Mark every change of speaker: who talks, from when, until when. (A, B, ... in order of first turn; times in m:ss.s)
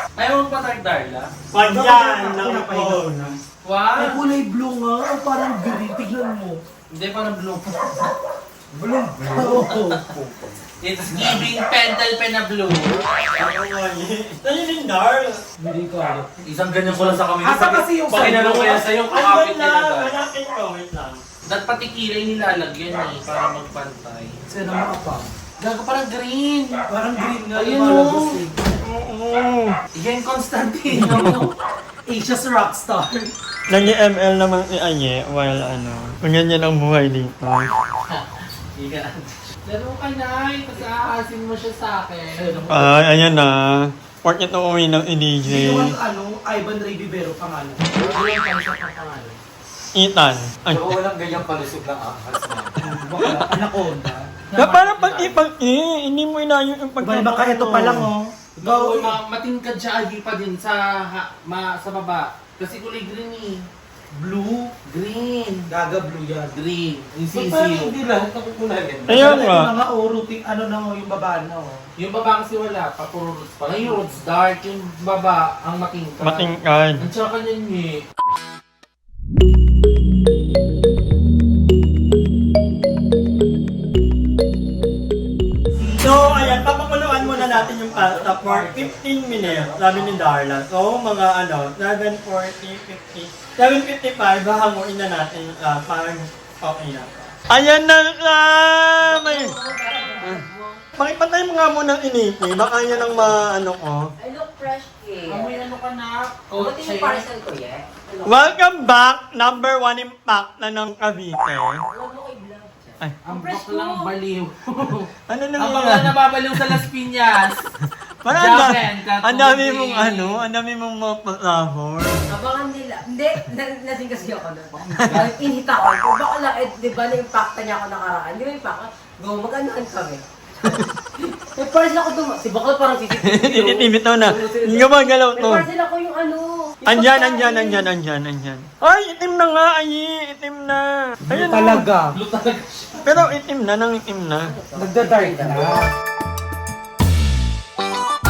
0:00.2-0:01.3 A
0:01.5-0:03.4 B
0:01.6-0:03.1 C
0:03.6-0:04.3 A
0:03.9-0:06.6 C
0:06.9-0:08.2 A
0:08.7-0:10.2 C
0:09.3-0:10.0 A
0:10.8-0:13.0 A
0:13.4-0:15.4 B
0:15.6-0:16.3 C
0:16.4-0:20.1 A
0:17.4-0:18.8 C
0:18.1-0:21.2 B
0:21.5-0:24.4 A
0:24.5-0:25.3 C
0:25.6-0:26.8 A
0:26.9-0:28.6 C
0:27.5-0:28.4 A
0:28.6-0:29.8 B
0:29.9-0:31.5 A
0:30.9-0:31.3 C
0:32.1-0:33.3 C
0:33.7-0:37.7 B
0:38.1-0:42.6 A
0:42.4-0:43.1 C
0:42.7-0:46.0 B
0:45.4-0:47.8 C
0:48.1-0:49.4 A
0:49.9-0:50.9 B
0:50.7-0:52.7 D
0:52.8-0:54.3 C
0:52.9-0:53.4 B
0:54.5-0:55.4 A
0:54.6-0:58.1 B
0:57.0-0:59.2 C
0:58.6-1:03.7 A
1:04.1-1:04.7 C
1:04.8-1:05.7 A
1:05.7-1:06.6 C
1:06.5-1:09.4 A
1:07.3-1:08.1 C
1:09.1-1:11.8 C
1:09.1-1:09.7 B
1:12.0-1:18.0 A
1:16.2-1:17.0 B
1:25.8-1:30.2 C
1:26.0-1:39.5 B
1:39.0-1:40.8 E
1:40.0-1:40.2 C
1:41.0-1:44.0 B
1:44.2-1:45.6 E
1:45.3-1:47.2 A
1:46.5-1:48.5 E
1:48.2-1:51.8 B
1:51.9-1:54.1 E
1:53.2-1:57.6 A
1:55.3-1:56.8 B
1:58.2-2:02.3 B
1:58.3-2:00.4 A
2:02.3-2:17.9 E
2:04.7-2:05.3 A
2:04.9-2:05.3 B
2:13.2-2:15.7 B
2:16.8-2:21.8 B
2:21.2-2:22.2 C
2:22.1-2:23.1 A
2:23.0-2:24.5 B
2:24.5-2:25.8 E
2:24.8-2:25.9 C